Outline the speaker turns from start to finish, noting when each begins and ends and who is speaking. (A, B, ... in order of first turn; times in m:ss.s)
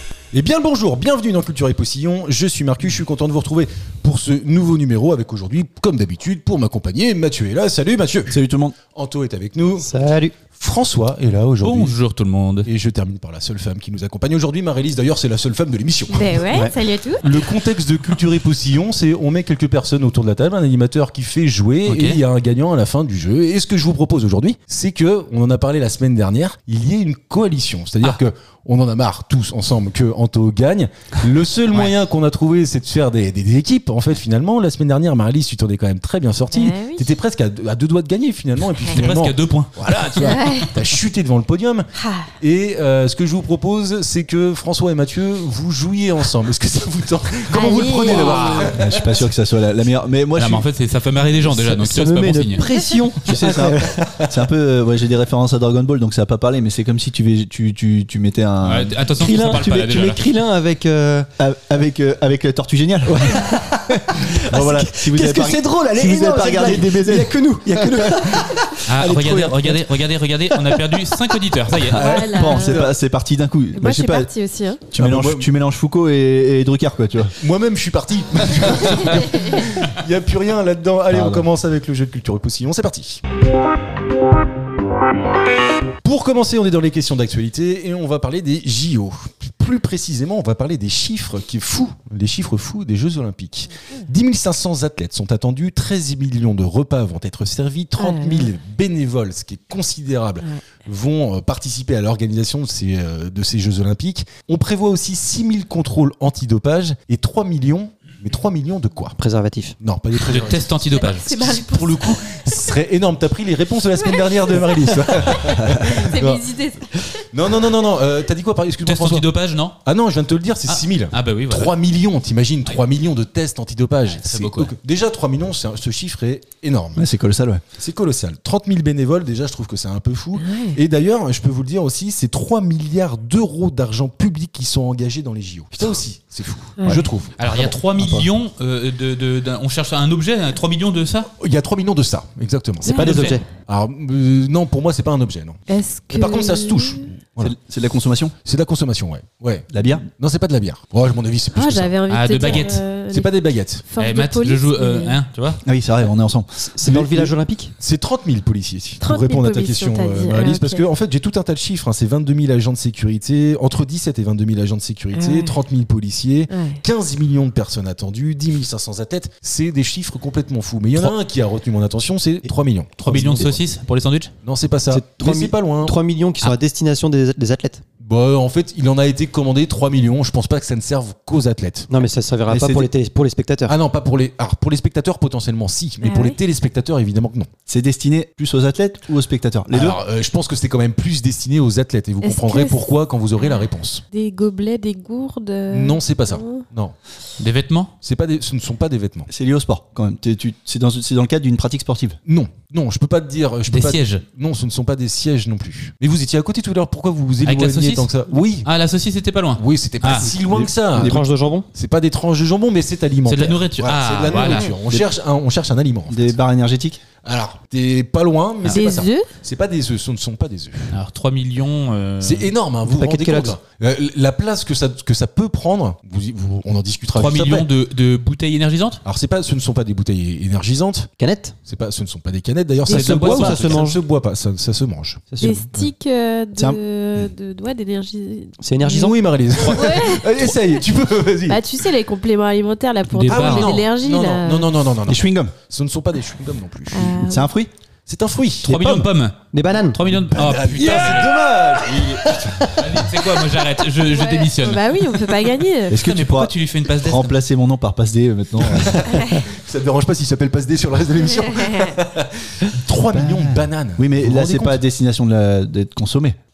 0:00.3-0:08.4 A
0:08.3-0:08.8 B
0:08.9-0:09.9 A
0:09.8-0:10.3 C
0:10.5-0:12.0 A
0:11.6-0:12.7 D
0:12.6-0:16.7 A
0:16.1-0:17.4 E
0:17.2-0:49.3 A
0:21.8-0:22.2 D
0:36.5-0:37.1 E
0:38.9-0:40.7 D
0:40.3-0:40.7 E
0:42.0-0:42.3 E
0:47.5-0:48.8 E
0:48.1-0:48.8 D
0:48.7-0:50.7 B
0:50.4-0:52.6 D
0:51.5-0:54.0 C
0:53.2-0:59.0 B
0:58.6-1:00.2 D
0:59.2-1:01.3 C
1:01.4-1:08.4 B
1:03.1-1:10.0 C
1:08.9-1:12.0 D
1:10.6-1:11.2 C
1:11.9-1:14.3 B
1:11.9-1:12.8 E
1:12.0-1:12.9 A
1:13.8-1:14.9 E
1:14.9-1:17.4 B
1:15.0-1:15.5 A
1:17.4-1:23.2 A
1:21.1-1:21.5 B
1:26.0-1:49.2 A
1:38.0-1:38.5 E
1:49.2-1:49.8 C
1:49.8-1:56.5 A
1:50.1-1:51.4 D
1:50.9-1:52.6 E
1:54.0-1:54.8 E
1:55.8-1:57.3 E
1:57.3-1:59.3 A
1:58.8-1:59.8 D
1:59.8-2:07.1 A
2:00.7-2:01.8 D
2:04.0-2:04.7 D
2:07.0-2:07.6 B
2:07.8-2:17.4 A
2:10.4-2:10.8 E
2:16.8-2:17.0 E
2:17.4-2:21.3 D
2:17.6-2:18.3 B
2:21.4-2:27.6 A
2:22.8-2:23.1 E
2:22.9-2:23.5 C
2:22.9-2:23.4 D
2:25.7-2:27.1 E
2:27.4-2:28.4 B
2:28.4-2:33.8 A
2:29.7-2:30.0 B
2:31.5-2:33.3 E
2:32.1-2:32.8 D
2:33.8-2:35.2 E
2:34.0-2:35.6 D
2:35.6-2:37.3 B
2:36.6-2:37.7 C
2:37.8-2:53.5 A
2:39.0-2:40.8 E
2:45.1-2:45.6 E
2:46.5-2:46.8 E
2:53.0-2:54.3 D
2:53.1-2:53.6 C
2:54.4-2:56.0 A
2:54.9-2:57.8 C
2:58.0-3:01.9 A
3:01.9-3:03.8 C
3:02.5-3:02.9 B
3:03.7-3:07.5 A
3:06.0-3:06.4 E
3:07.7-3:10.0 B
3:09.7-3:14.0 A
3:12.2-3:16.7 E
3:15.7-3:17.0 A
3:17.4-3:17.9 D
3:18.0-3:19.3 A
3:19.3-3:22.2 B
3:22.3-3:28.7 A
3:23.7-3:24.2 D
3:27.4-3:28.1 D
3:28.6-3:30.3 D
3:29.6-3:31.2 A
3:30.3-3:31.3 B
3:31.0-3:31.7 C
3:31.7-3:36.4 A
3:33.3-3:34.7 D
3:34.8-3:35.1 B
3:36.1-3:37.0 B
3:37.2-3:41.0 A
3:38.7-3:39.3 E
3:40.9-3:42.5 D
3:42.2-3:47.7 A
3:42.8-3:43.6 C
3:47.1-3:49.0 D
3:49.0-3:51.1 A
3:51.2-3:51.6 C
3:51.7-3:55.9 A
3:52.9-3:54.0 C
3:52.9-3:53.2 D
3:53.2-3:53.7 B
3:55.3-3:55.7 C
3:55.4-3:58.6 E
3:58.6-3:59.2 C
3:58.8-4:01.8 A
3:59.6-4:00.8 E
4:01.5-4:04.7 E
4:03.1-4:03.8 D
4:03.3-4:07.3 A
4:05.1-4:05.6 B
4:06.9-4:07.4 E
4:07.1-4:07.7 B
4:08.1-4:08.8 A
4:08.6-4:11.4 D
4:08.7-4:10.0 C
4:10.1-4:12.5 A
4:10.9-4:11.2 E
4:11.8-4:13.1 C
4:12.8-4:14.9 D
4:14.1-4:16.0 E
4:15.9-4:19.0 B
4:15.9-4:17.4 D
4:18.8-4:19.4 C
4:19.1-4:19.4 E
4:19.4-4:24.8 A
4:21.2-4:22.0 E
4:23.1-4:26.4 B